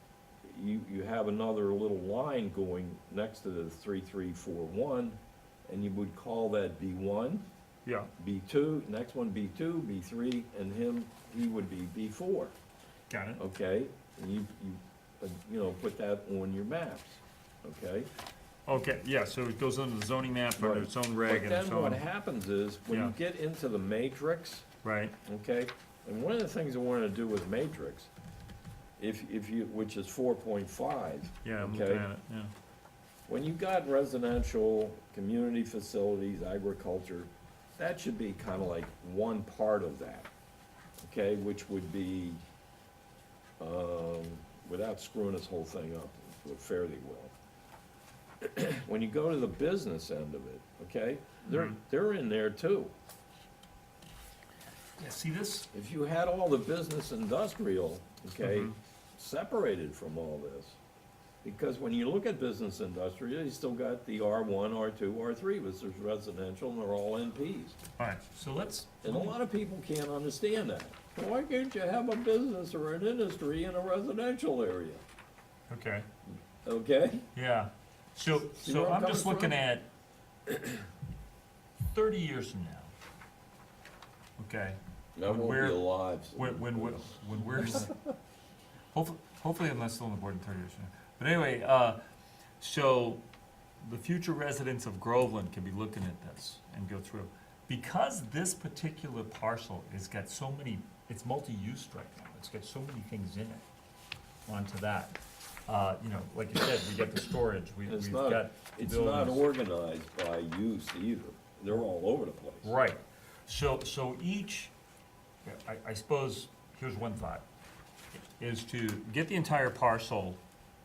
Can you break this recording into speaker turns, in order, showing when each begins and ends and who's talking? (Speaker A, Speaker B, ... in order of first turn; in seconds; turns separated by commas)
Speaker A: 0.4-7.4, Speaker B: 7.8-8.1, Speaker A: 8.2-12.5, Speaker B: 13.1-13.4, Speaker A: 13.4-18.1, Speaker B: 18.7-22.0, Speaker A: 20.6-24.7, Speaker B: 22.9-23.1, Speaker B: 24.8-25.1, Speaker A: 25.2-28.1, Speaker A: 29.0-32.1, Speaker B: 31.4-32.5, Speaker A: 33.3-40.3, Speaker A: 41.0-42.4, Speaker A: 43.6-47.3, Speaker A: 48.4-52.9, Speaker B: 55.0-55.7, Speaker A: 55.7-60.8, Speaker B: 58.4-58.8, Speaker A: 61.4-67.8, Speaker B: 68.0-69.3, Speaker A: 69.0-75.0, Speaker B: 75.7-76.1, Speaker A: 76.6-77.3, Speaker B: 77.3-79.9, Speaker A: 78.5-79.6, Speaker B: 81.9-82.9, Speaker B: 84.4-88.0, Speaker A: 85.2-87.9, Speaker B: 88.9-92.0, Speaker B: 92.6-93.2, Speaker B: 93.8-103.7, Speaker B: 104.5-109.4, Speaker A: 107.9-112.7, Speaker B: 112.6-114.7, Speaker B: 115.5-117.4, Speaker B: 118.4-120.4